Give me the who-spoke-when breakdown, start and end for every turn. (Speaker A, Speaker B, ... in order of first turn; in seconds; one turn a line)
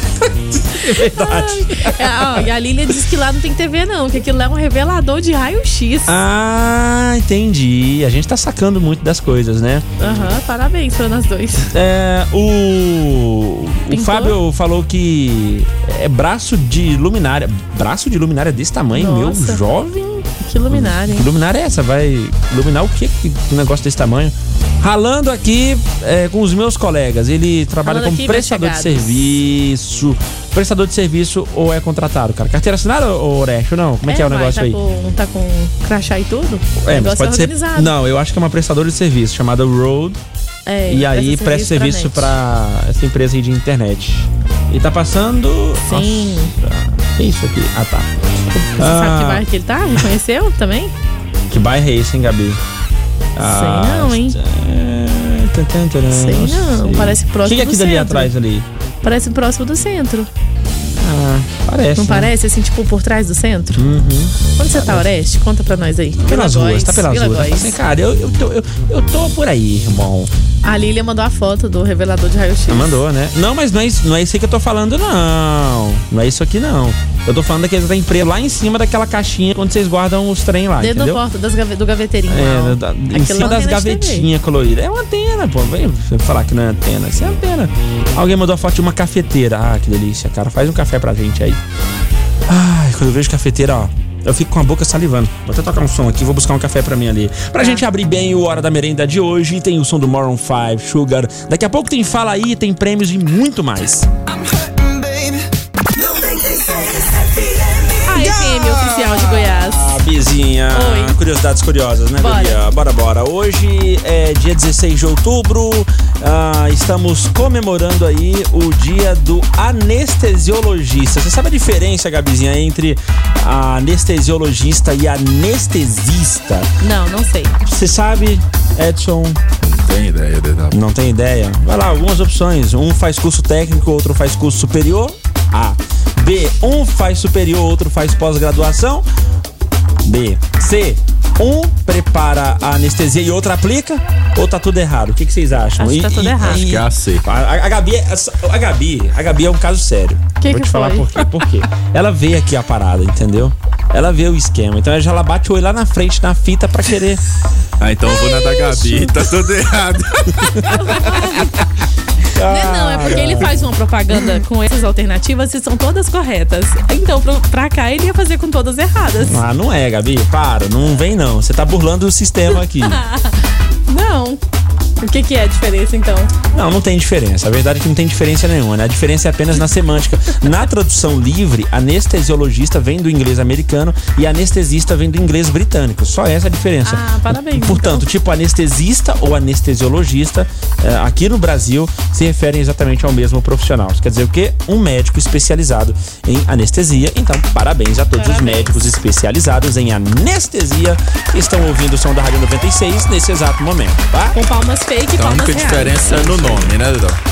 Speaker A: 0.5-2.5
Speaker B: 1.1-6.1
Speaker A: 6.1-9.8
Speaker B: 10.0-11.7
Speaker A: 11.7-34.8
Speaker B: 13.9-14.4
Speaker B: 18.9-19.6
Speaker B: 20.4-21.3
Speaker B: 27.8-29.3
Speaker B: 34.0-37.9
Speaker A: 36.8-40.2
Speaker B: 40.6-42.3
Speaker A: 40.9-49.4
Speaker B: 45.9-46.5
Speaker B: 48.8-50.9
Speaker A: 51.5-52.6
Speaker A: 53.4-58.6
Speaker B: 53.4-54.4
Speaker B: 56.1-58.3
Speaker B: 59.0-60.3
Speaker A: 61.0-62.3
Speaker B: 62.0-63.8
Speaker A: 63.7-65.0
Speaker B: 64.6-67.8
Speaker A: 66.2-70.3
Speaker B: 70.6-73.0
Speaker A: 72.7-81.2
Speaker B: 80.8-84.3
Speaker A: 82.3-91.6
Speaker A: 92.5-104.1
Speaker B: 108.0-109.8
Speaker A: 108.1-126.7
Speaker B: 110.7-111.2
Speaker B: 112.2-112.6
Speaker B: 126.8-127.6
Speaker A: 127.6-129.4
Speaker C: 129.6-130.8
Speaker A: 130.7-139.0
Speaker A: 140.0-157.2
Speaker B: 145.8-146.6
Speaker C: 146.4-147.2
Speaker B: 150.4-151.2
Speaker C: 157.8-160.6
Speaker B: 160.7-161.6
Speaker A: 162.3-163.6
Speaker B: 162.4-169.4
Speaker A: 169.2-173.0
Speaker B: 172.8-174.4
Speaker B: 175.0-176.3
Speaker A: 176.5-204.3
Speaker B: 186.8-188.1
Speaker B: 198.1-198.8
Speaker B: 204.3-206.2
Speaker C: 205.2-207.2
Speaker A: 206.1-206.7